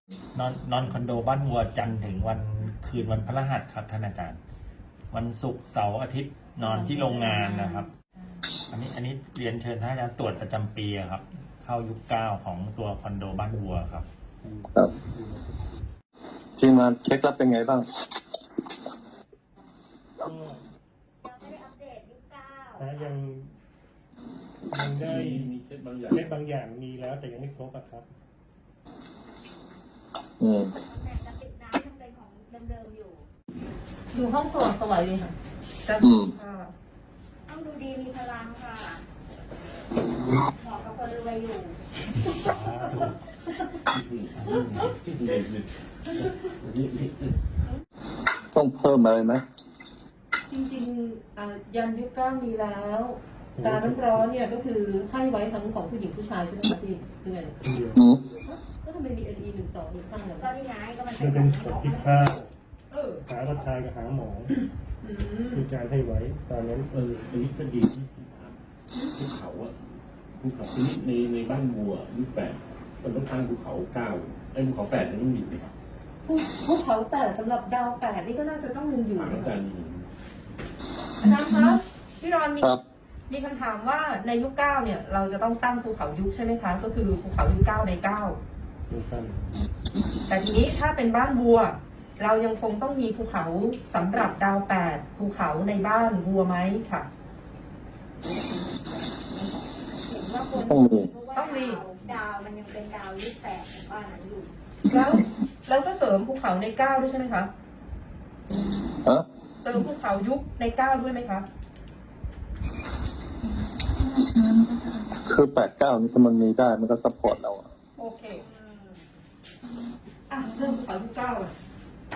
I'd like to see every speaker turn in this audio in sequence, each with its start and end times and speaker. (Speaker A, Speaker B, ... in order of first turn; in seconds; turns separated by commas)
Speaker A: 0.3-4.4, Speaker A: 5.1-7.9, Speaker A: 8.7-14.1, Speaker B: 14.4-15.9, Speaker C: 16.6-17.9, Speaker B: 20.2-20.6, Speaker D: 21.2-23.1, Speaker B: 22.8-23.5, Speaker B: 24.7-25.5, Speaker E: 25.0-26.3, Speaker B: 26.1-28.1, Speaker C: 30.4-30.7, Speaker D: 30.9-33.2, Speaker F: 34.1-36.7, Speaker C: 36.0-36.3, Speaker D: 37.5-39.0, Speaker D: 40.6-41.8, Speaker A: 42.4-43.1, Speaker E: 43.9-47.4, Speaker A: 44.5-44.8, Speaker C: 48.5-49.4, Speaker F: 50.5-57.6, Speaker B: 53.6-54.3, Speaker B: 57.6-58.0, Speaker C: 58.0-58.2, Speaker F: 58.4-60.5, Speaker D: 60.3-62.3, Speaker B: 61.2-62.5, Speaker F: 62.9-63.2, Speaker B: 63.3-64.5, Speaker F: 65.0-65.6, Speaker B: 65.5-66.9, Speaker E: 66.9-68.6, Speaker E: 69.1-75.7, Speaker F: 76.2-79.5, Speaker E: 79.1-80.1, Speaker F: 81.2-82.7, Speaker F: 83.3-88.4, Speaker B: 88.9-89.5, Speaker F: 90.3-97.1, Speaker D: 98.3-98.8, Speaker D: 99.3-104.5, Speaker C: 100.5-101.1, Speaker F: 101.3-101.8, Speaker F: 104.9-107.5, Speaker F: 109.6-111.5, Speaker C: 115.2-117.6, Speaker F: 118.0-118.5, Speaker D: 118.3-119.0, Speaker F: 120.3-121.5